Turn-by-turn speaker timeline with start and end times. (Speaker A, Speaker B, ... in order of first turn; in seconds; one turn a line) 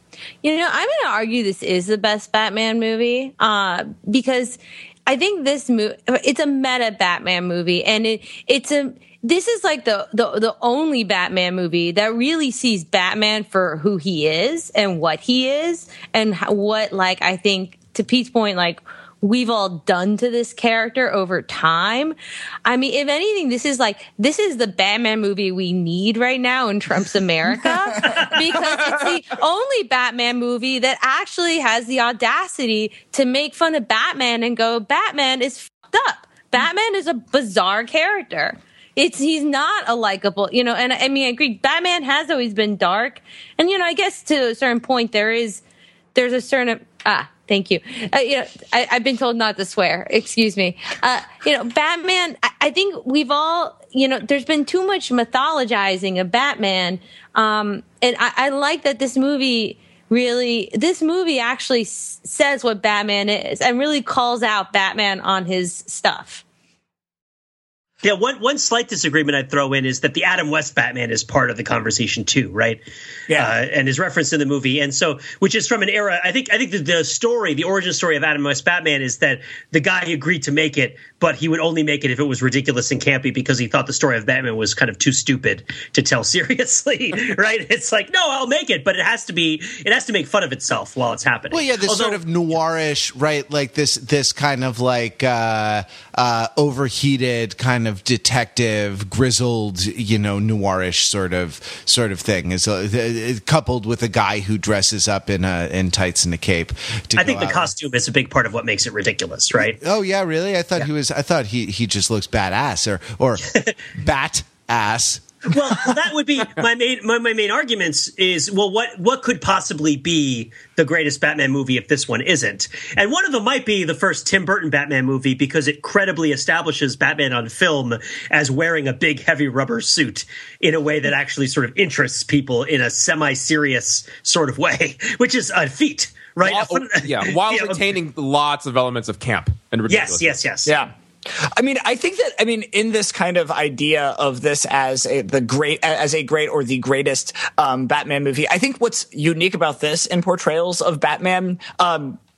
Speaker A: 0.4-45.6
Speaker A: 46.1-66.4
Speaker B: 68.0-72.8
Speaker B: 73.3-92.2
Speaker C: 91.5-107.7
Speaker B: 107.2-109.8
Speaker C: 109.6-115.2
Speaker B: 115.5-137.8
Speaker D: 136.4-140.4
Speaker B: 139.9-140.7
Speaker E: 140.7-152.2